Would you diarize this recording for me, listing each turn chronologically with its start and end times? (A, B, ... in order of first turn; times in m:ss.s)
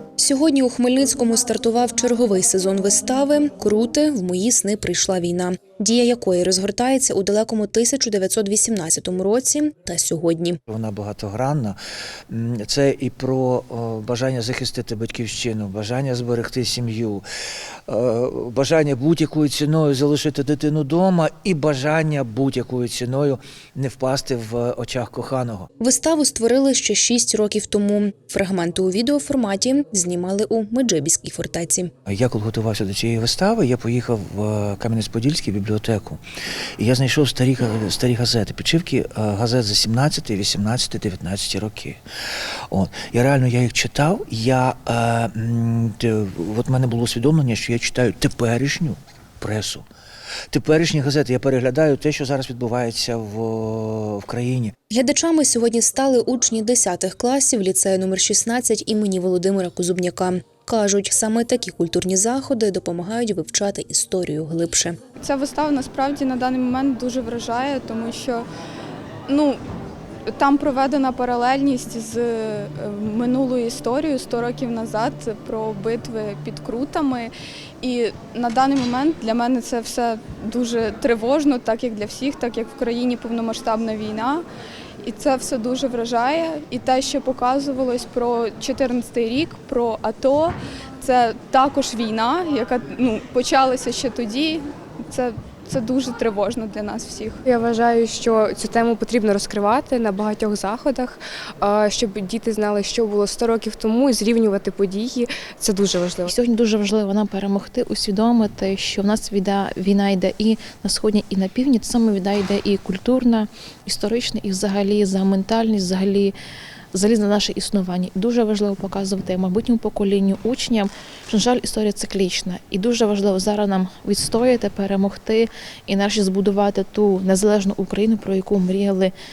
0:00.2-0:10.6 A
0:10.7-0:11.8 B
0:12.3-0:17.2 B
0:17.9-0:25.7 B
0:25.8-0:31.9 A
0:32.1-0:36.2 B
0:36.8-0:42.0 B
0:42.7-0:49.9 B
0:50.5-0:54.7 B
0:54.9-1:05.0 A
1:05.2-1:08.4 C
1:09.3-1:09.6 C
1:10.3-1:24.4 C
1:25.0-1:37.4 C
1:37.5-1:46.3 D
1:46.3-1:56.3 E
1:56.9-2:09.1 E